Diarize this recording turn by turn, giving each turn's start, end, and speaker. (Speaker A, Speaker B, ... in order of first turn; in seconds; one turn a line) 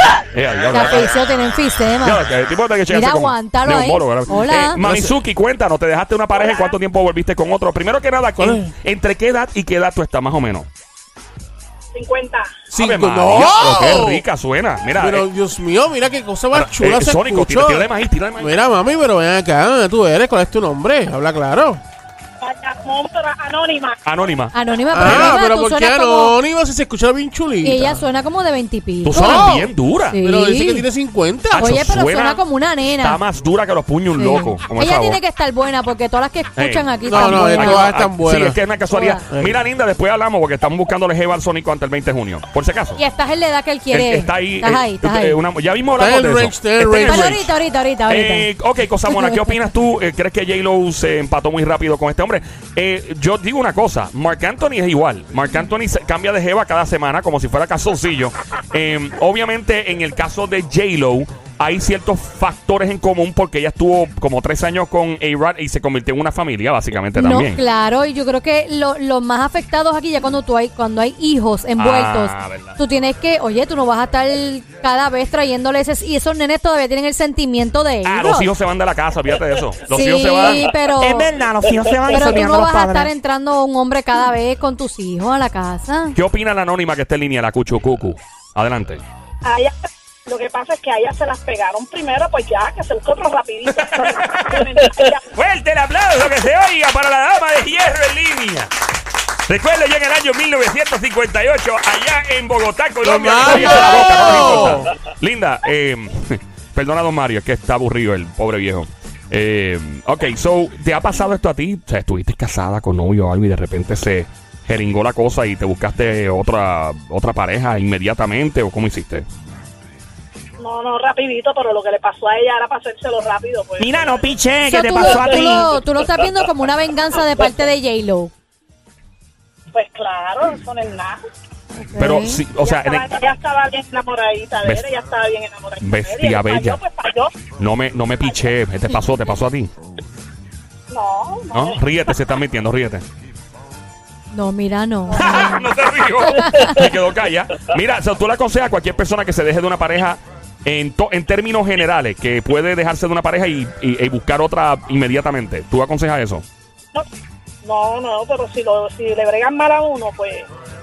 Speaker A: 0.3-1.1
Speaker B: 0.7-2.2
Speaker A: 2.0-10.7
Speaker B: 2.9-4.8
Speaker C: 4.4-5.2
Speaker D: 6.3-6.8
Speaker C: 8.4-8.7
Speaker D: 11.9-12.6
Speaker C: 12.7-14.2
Speaker A: 12.7-15.3
Speaker C: 15.0-17.9
Speaker A: 16.5-18.5
Speaker C: 18.4-21.8
Speaker D: 22.4-24.0
Speaker A: 24.1-25.4
Speaker B: 24.5-26.4
Speaker C: 24.9-28.0
Speaker B: 27.6-29.5
Speaker A: 29.1-30.2
Speaker C: 29.1-29.7
Speaker B: 30.1-30.9
Speaker C: 30.2-31.7
Speaker A: 31.5-32.4
Speaker B: 31.5-33.2
Speaker A: 33.0-35.2
Speaker B: 34.2-37.9
Speaker A: 36.6-43.0
Speaker C: 37.1-38.6
Speaker B: 38.9-39.2
Speaker C: 39.3-39.6
Speaker B: 43.0-45.4
Speaker A: 43.9-47.4
Speaker C: 46.0-47.4
Speaker B: 47.0-48.5
Speaker A: 48.1-67.6
Speaker B: 67.2-78.5
Speaker A: 71.8-72.8
Speaker A: 78.1-80.7
Speaker B: 79.9-81.3
Speaker E: 81.0-83.1
Speaker B: 82.1-86.2
Speaker A: 86.2-89.0
Speaker D: 89.5-89.8
Speaker D: 90.3-95.3
Speaker A: 93.7-98.7
Speaker A: 99.5-119.3
Speaker C: 103.0-104.9
Speaker D: 120.6-124.2
Speaker E: 123.8-125.7
Speaker B: 124.7-128.3
Speaker D: 125.1-125.5
Speaker D: 129.7-131.2
Speaker B: 131.8-132.4
Speaker A: 132.0-133.2
Speaker D: 132.6-137.4
Speaker A: 134.6-134.9
Speaker A: 135.8-136.8
Speaker A: 137.6-139.7
Speaker D: 138.2-138.5
Speaker D: 140.9-141.8
Speaker A: 141.5-143.1
Speaker B: 144.3-145.7
Speaker D: 145.1-145.6
Speaker A: 145.2-156.4
Speaker B: 146.4-146.8
Speaker D: 157.6-160.5